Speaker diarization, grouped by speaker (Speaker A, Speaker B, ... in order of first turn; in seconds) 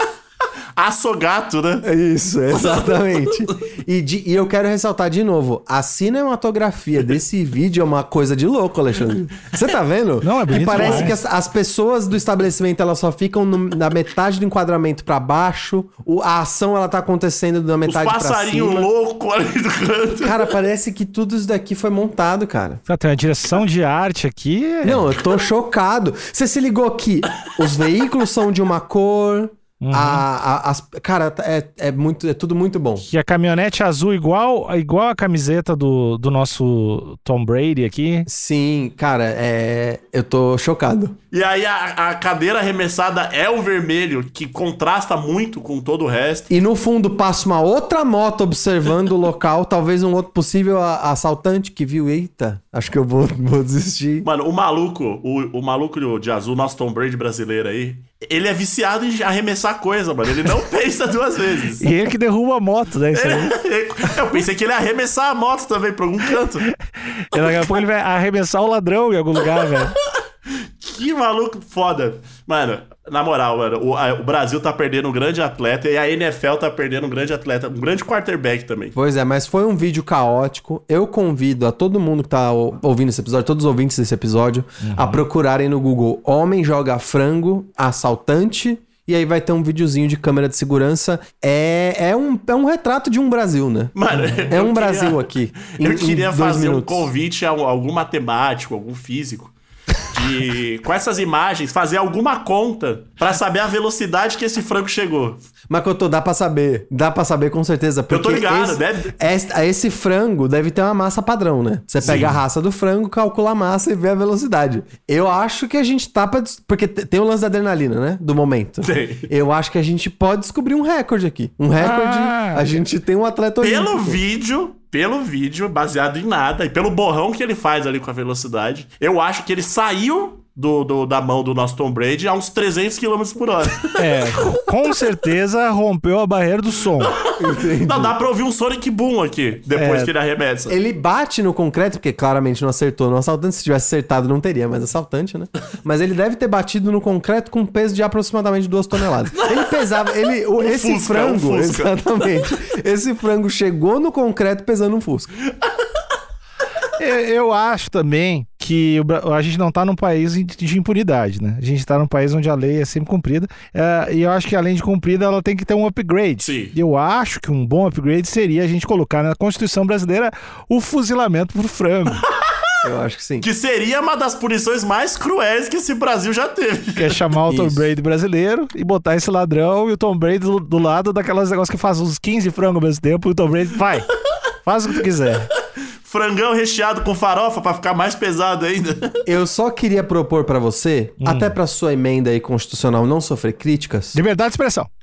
Speaker A: 0.8-1.9, 10.7-11.1, 17.9-20.4, 41.3-46.5, 54.2-61.8, 63.1-66.7, 70.8-79.0, 93.9-105.4, 108.1-109.1, 112.0-112.3, 118.8-119.3, 123.6-134.0, 137.0-140.8, 150.6-151.9, 166.4-166.7, 173.4-177.2, 186.0-189.2
Speaker B: 1.8-18.9, 20.2-22.8, 24.8-33.0, 38.3-41.1, 46.5-54.3, 79.0-93.9, 94.5-97.1, 105.7-124.2, 137.4-138.2, 140.7-155.3, 172.8-173.5, 177.5-177.8, 189.2-194.2
Speaker C: 10.2-11.2, 22.9-25.1, 29.8-30.2, 33.0-38.3, 61.8-63.5, 67.1-69.9, 84.8-85.2, 112.0-112.3, 121.8-122.7, 133.9-137.1, 139.7-140.1, 157.0-172.2, 176.9-184.1, 184.6-185.5, 191.2-191.5, 194.1-194.9